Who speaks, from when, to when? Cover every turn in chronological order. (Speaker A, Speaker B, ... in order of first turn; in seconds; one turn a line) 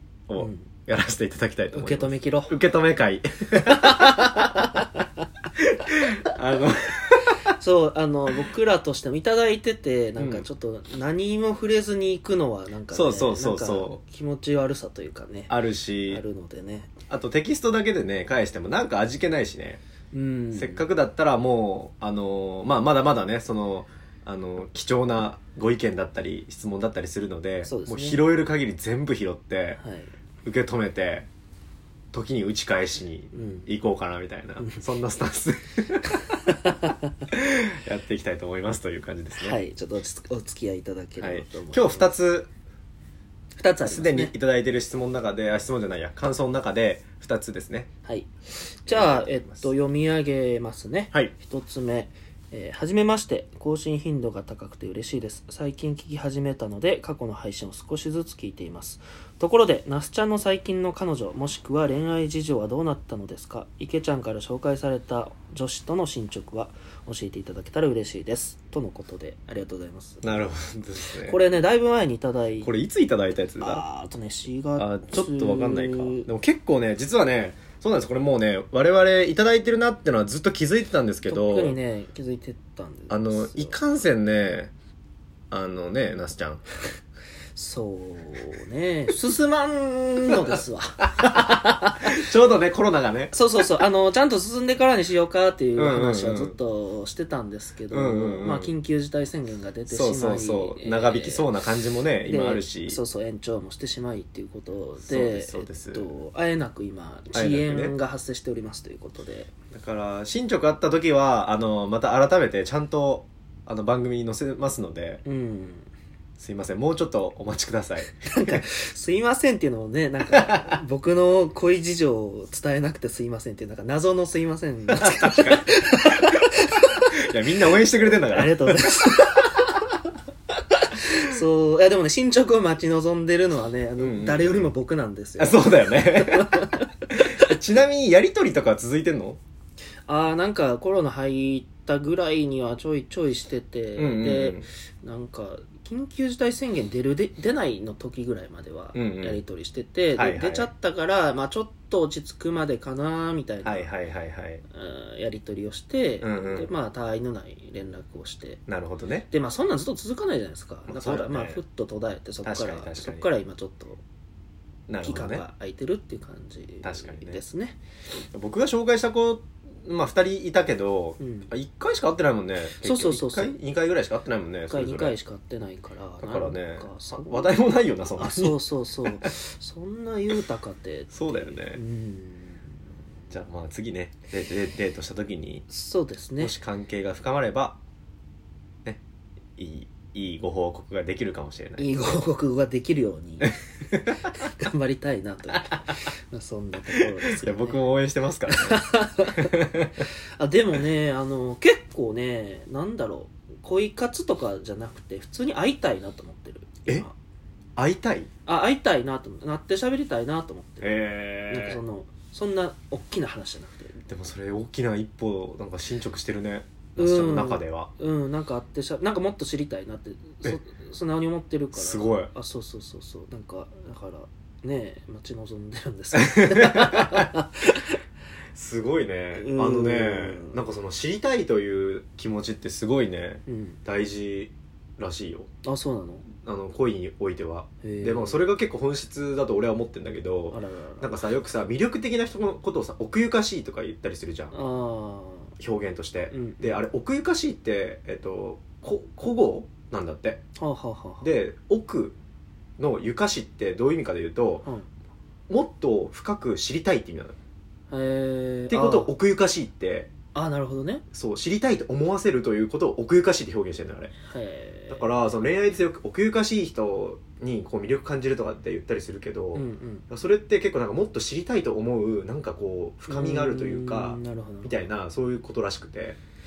Speaker A: 0.3-4.6
Speaker B: 0.4-0.7
Speaker B: 1.7-2.6
Speaker B: 3.9-4.7
Speaker A: 5.5-7.5
Speaker B: 7.6-15.5
Speaker A: 10.2-10.4
Speaker A: 12.9-14.0
Speaker A: 15.5-16.2
Speaker B: 16.1-16.9
Speaker A: 17.1-19.8
Speaker B: 20.1-20.8
Speaker A: 20.5-29.8
Speaker B: 27.6-28.2
Speaker B: 29.8-30.1
Speaker A: 30.4-31.3
Speaker A: 32.1-36.4
Speaker B: 33.3-33.7
Speaker B: 36.6-36.9
Speaker A: 37.3-39.6
Speaker B: 39.4-42.1
Speaker A: 41.2-42.5
Speaker B: 43.6-44.3
Speaker A: 43.8-47.9
Speaker B: 48.8-70.4
Speaker A: 48.9-49.7
Speaker A: 70.2-71.4
Speaker B: 71.2-72.7
Speaker A: 72.6-73.8
Speaker B: 73.6-76.3
Speaker A: 74.8-81.8
Speaker B: 81.3-83.8
Speaker A: 83.1-84.7
Speaker A: 85.5-86.6
Speaker B: 87.5-92.0
Speaker A: 91.1-93.4
Speaker B: 93.3-101.5
Speaker A: 95.8-96.6
Speaker A: 97.9-98.7
Speaker A: 99.9-103.0
Speaker B: 102.2-109.5
Speaker A: 105.0-106.1
Speaker A: 107.3-107.9
Speaker A: 109.7-115.2
Speaker B: 115.2-115.9
Speaker A: 116.4-118.6
Speaker B: 118.2-126.8
Speaker A: 120.4-120.8
Speaker A: 124.9-126.5
Speaker A: 127.1-128.8
Speaker B: 128.2-129.9
Speaker B: 130.7-136.8
Speaker A: 134.0-134.7
Speaker A: 135.4-139.4
Speaker B: 140.1-153.9
Speaker A: 144.0-144.7
Speaker A: 148.9-149.4
Speaker A: 150.2-150.7
Speaker A: 153.6-154.6
Speaker B: 154.7-158.6
Speaker A: 156.2-156.7
Speaker A: 158.7-159.3
Speaker B: 159.3-164.0
Speaker A: 160.9-161.6
Speaker A: 162.4-163.3
Speaker A: 164.9-165.4
Speaker B: 165.0-167.8
Speaker A: 166.8-167.4
Speaker A: 168.3-175.1
Speaker B: 171.2-171.5
Speaker B: 172.8-173.6
Speaker B: 174.7-177.5
Speaker A: 176.2-178.6
Speaker B: 178.2-182.7
Speaker A: 181.1-181.8
Speaker A: 183.3-185.7
Speaker B: 185.7-186.5
Speaker A: 186.4-187.8
Speaker A: 189.6-192.0
Speaker B: 191.8-193.5
Speaker A: 193.4-194.3
Speaker B: 194.4-197.8
Speaker A: 196.9-198.9
Speaker B: 198.5-199.6
Speaker A: 199.4-200.0
Speaker B: 200.4-207.1
Speaker A: 207.8-208.3
Speaker B: 208.4-214.0
Speaker A: 210.8-211.8
Speaker A: 214.1-217.9
Speaker B: 217.0-227.9
Speaker A: 221.7-222.3
Speaker A: 226.1-227.3
Speaker A: 228.5-235.5
Speaker B: 229.3-230.6
Speaker B: 233.5-233.8
Speaker B: 235.6-236.3
Speaker A: 236.3-244.5
Speaker B: 237.8-238.4
Speaker B: 240.5-241.2
Speaker B: 244.5-245.5
Speaker A: 245.6-250.4
Speaker B: 246.3-246.8
Speaker B: 250.6-251.2
Speaker A: 251.2-252.1
Speaker A: 252.8-254.7
Speaker A: 255.5-257.4
Speaker B: 257.9-259.1
Speaker A: 258.7-260.1
Speaker B: 260.3-261.0
Speaker A: 261.1-264.1
Speaker B: 264.2-265.1
Speaker A: 264.9-276.2
Speaker B: 269.5-270.1
Speaker B: 273.1-274.8